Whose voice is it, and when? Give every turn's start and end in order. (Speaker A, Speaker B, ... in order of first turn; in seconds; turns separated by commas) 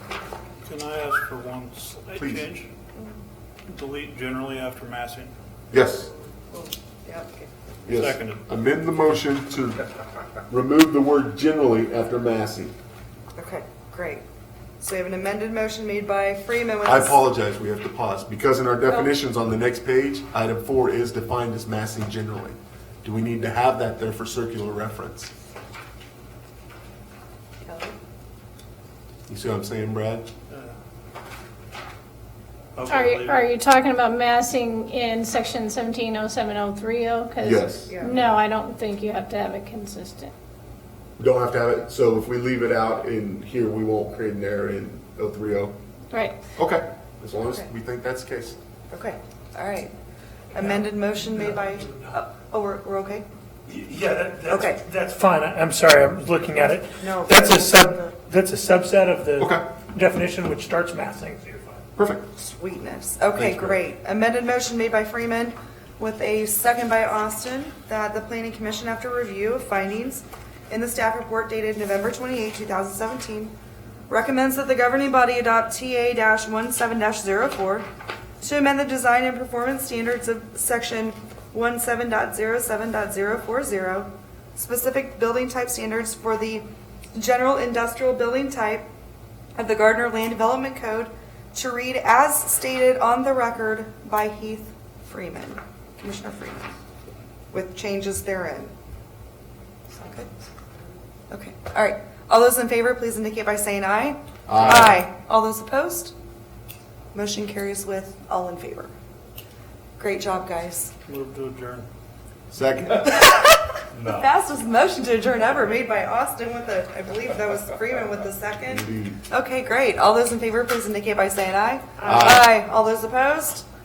Speaker A: 0.6-2.7, Speaker B: 2.2-2.5, Speaker A: 3.7-5.3, Speaker B: 5.7-6.1, Speaker C: 6.5-7.5, Speaker A: 7.9-8.5, Speaker B: 7.9-9.8, Speaker B: 10.5-12.7, Speaker C: 13.3-14.2, Speaker C: 14.8-17.2, Speaker B: 16.8-25.3, Speaker C: 27.6-28.0, Speaker B: 29.3-30.3, Speaker A: 32.8-33.4, Speaker D: 32.9-40.3, Speaker B: 37.4-37.9, Speaker C: 37.9-38.2, Speaker B: 41.2-45.8, Speaker D: 46.1-46.4, Speaker B: 46.6-48.6, Speaker C: 48.9-49.9, Speaker C: 50.5-53.2, Speaker E: 53.7-61.9, Speaker C: 54.5-54.8, Speaker C: 57.0-58.1, Speaker B: 59.4-59.7, Speaker B: 62.0-62.3, Speaker C: 62.3-73.5, Speaker B: 63.4-63.8, Speaker C: 74.1-77.8, Speaker C: 78.4-88.9, Speaker C: 89.5-96.7, Speaker C: 97.5-98.7, Speaker C: 99.9-100.3, Speaker C: 101.3-106.1, Speaker B: 104.5-105.0, Speaker C: 107.1-108.9, Speaker C: 110.0-110.9, Speaker A: 111.1-111.9, Speaker B: 112.5-113.2, Speaker C: 112.9-123.7, Speaker A: 114.0-114.2, Speaker B: 118.7-119.2, Speaker B: 122.0-122.5